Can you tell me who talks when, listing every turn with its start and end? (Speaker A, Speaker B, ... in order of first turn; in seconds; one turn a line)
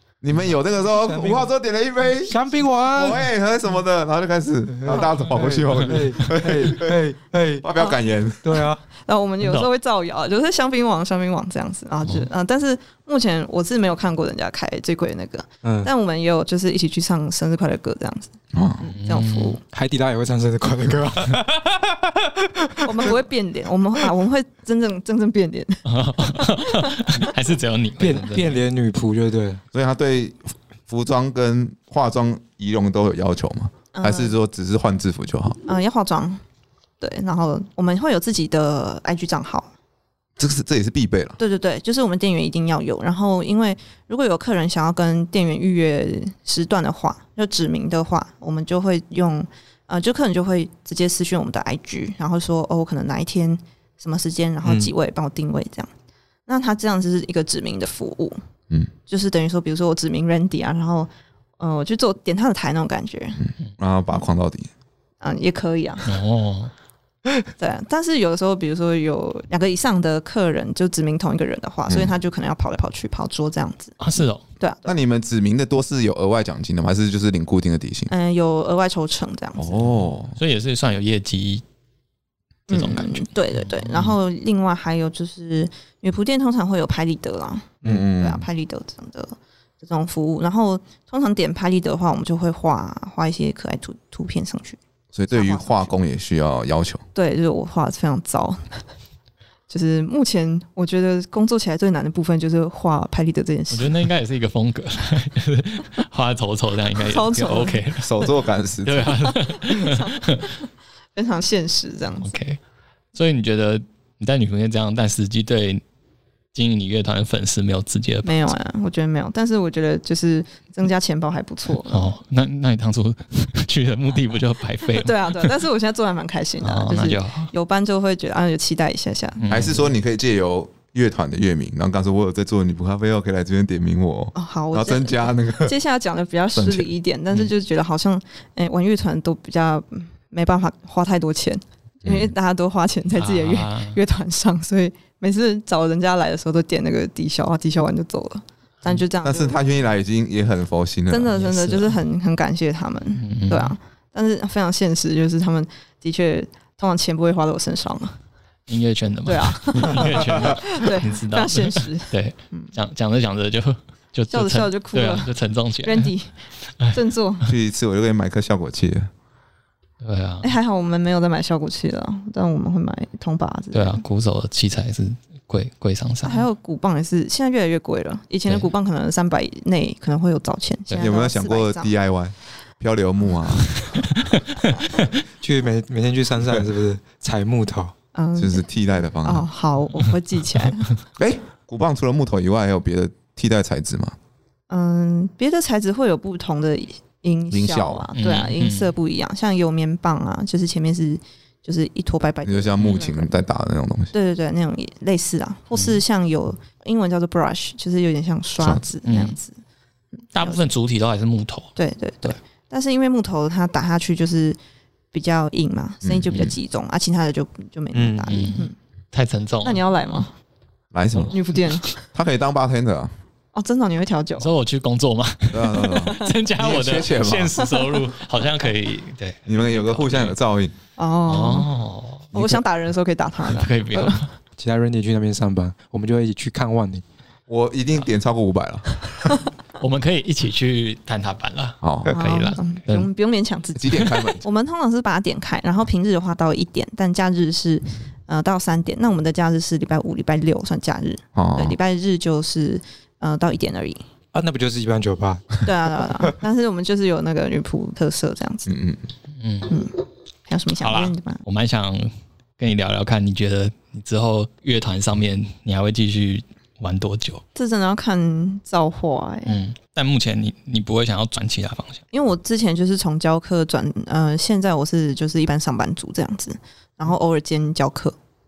Speaker A: 0.2-7.0
Speaker B: 0.9-1.5
Speaker B: 2.2-3.2
Speaker B: 4.8-7.7
Speaker A: 7.6-8.6
Speaker B: 8.4-8.8
Speaker C: 8.9-19.6
Speaker D: 9.4-9.7
Speaker B: 15.6-15.9
Speaker A: 18.5-18.8
Speaker D: 18.9-19.6
Speaker B: 19.7-23.1
Speaker C: 22.8-27.2
Speaker D: 25.9-28.6
Speaker B: 28.0-29.6
Speaker A: 29.7-35.6
Speaker C: 33.9-34.4
Speaker C: 35.6-36.4
Speaker C: 37.0-39.7
Speaker A: 40.4-41.4
Speaker C: 41.4-55.9
Speaker B: 54.6-54.9
Speaker C: 56.5-58.4
Speaker C: 59.1-63.4
Speaker A: 63.4-64.7
Speaker C: 65.2-66.2
Speaker D: 66.0-66.7
Speaker C: 67.6-74.0
Speaker D: 74.0-74.4
Speaker C: 74.6-74.9
Speaker A: 74.8-78.1
Speaker C: 78.1-79.9
Speaker A: 79.6-80.4
Speaker D: 80.4-81.6
Speaker C: 82.7-94.8
Speaker D: 82.7-84.1
Speaker A: 87.8-88.4
Speaker A: 95.1-97.0
Speaker C: 95.3-96.0
Speaker C: 97.1-98.8
Speaker C: 99.7-103.9
Speaker D: 103.7-108.1
Speaker C: 107.1-108.3
Speaker A: 108.0-109.2
Speaker D: 108.8-110.5
Speaker C: 109.5-112.3
Speaker D: 112.2-112.6
Speaker D: 113.1-115.8
Speaker D: 116.5-118.5
Speaker C: 118.2-122.1
Speaker D: 121.9-125.6
Speaker C: 125.0-129.4
Speaker D: 126.6-127.5
Speaker D: 129.4-129.9
Speaker A: 129.5-135.7
Speaker C: 134.3-149.6
Speaker A: 136.5-136.9
Speaker A: 142.0-142.3
Speaker D: 143.2-144.0
Speaker A: 149.2-151.3
Speaker C: 151.1-158.2
Speaker D: 151.3-151.9
Speaker D: 153.2-153.7
Speaker D: 158.7-166.1
Speaker C: 159.2-162.7
Speaker C: 164.3-167.4
Speaker A: 167.4-169.1
Speaker D: 170.0-170.5
Speaker C: 170.4-174.0
Speaker D: 173.7-176.4
Speaker C: 176.2-181.9
Speaker A: 181.0-183.8
Speaker D: 183.8-184.9
Speaker B: 185.4-187.9
Speaker C: 188.1-188.6
Speaker A: 188.3-189.5
Speaker C: 189.2-190.9
Speaker A: 191.2-194.2
Speaker C: 194.7-203.4
Speaker A: 197.5-198.1
Speaker D: 198.2-198.9
Speaker A: 202.4-204.1
Speaker C: 204.1-209.5
Speaker D: 205.7-206.0
Speaker D: 209.0-209.3
Speaker C: 210.2-210.6
Speaker D: 210.3-212.4
Speaker C: 211.8-214.6
Speaker C: 215.1-218.7
Speaker A: 216.0-216.5
Speaker B: 217.9-218.4
Speaker D: 218.3-219.8
Speaker C: 219.6-220.3
Speaker A: 220.9-221.4
Speaker C: 221.3-222.0
Speaker A: 221.9-223.1
Speaker C: 223.5-224.5
Speaker D: 224.4-230.3
Speaker A: 225.5-227.6
Speaker C: 225.9-226.3
Speaker C: 227.7-228.0
Speaker A: 229.5-230.7
Speaker C: 230.9-231.7
Speaker D: 231.3-232.6
Speaker C: 232.3-234.2
Speaker D: 233.5-234.3
Speaker B: 234.6-237.0
Speaker A: 237.5-239.4
Speaker D: 239.8-243.1
Speaker A: 241.8-242.1
Speaker C: 242.1-254.0
Speaker A: 243.8-244.4
Speaker D: 244.0-244.3
Speaker A: 251.3-251.8
Speaker B: 254.3-255.6
Speaker C: 255.6-258.7
Speaker A: 258.7-259.0
Speaker D: 259.4-259.7
Speaker C: 259.7-259.9
Speaker C: 260.5-261.4
Speaker D: 260.8-267.4
Speaker C: 267.5-269.5
Speaker D: 269.4-272.0
Speaker C: 272.1-278.1